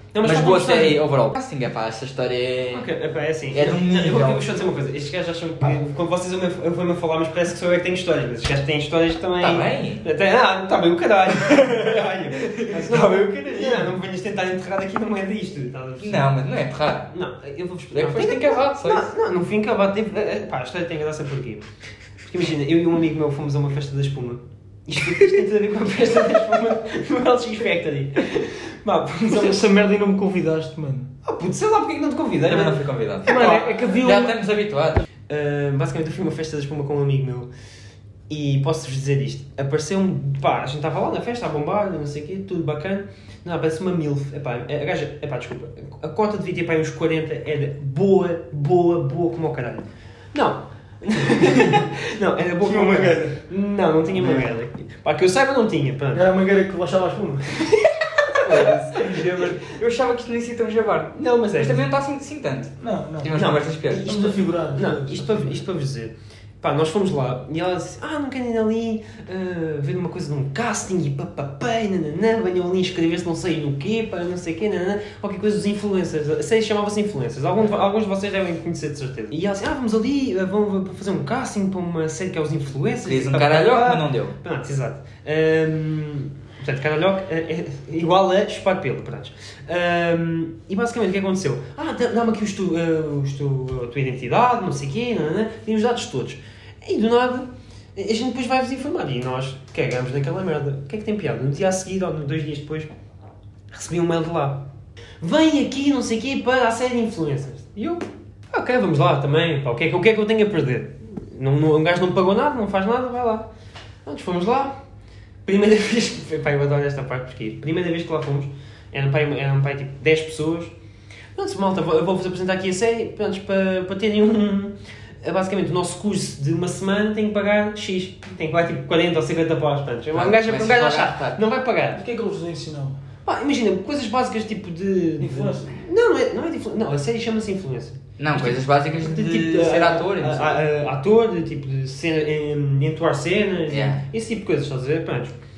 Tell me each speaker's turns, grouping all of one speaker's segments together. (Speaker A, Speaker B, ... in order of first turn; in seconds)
Speaker A: 0.1-1.0, 2.7-16.4, 17.1-29.7, 31.2-33.7, 35.3-37.5, 38.3-56.3, 57.6-59.5, 61.1-61.9, 63.3-102.9, 103.7-104.7, 105.2-113.5, 114.0-114.8, 115.5-120.8, 121.3-132.0, 133.2-145.4
Speaker B: 0.2-2.9, 3.5-4.5, 9.4-10.0, 12.5-13.8, 16.0-17.1, 17.9-19.1, 32.5-35.0, 58.3-64.2, 83.1-84.3, 130.1-131.4, 138.2-140.6, 143.7-144.0
Speaker C: 29.3-31.1, 33.3-34.4, 52.6-53.4, 56.1-57.7, 62.8-65.6, 132.0-133.0, 135.2-135.8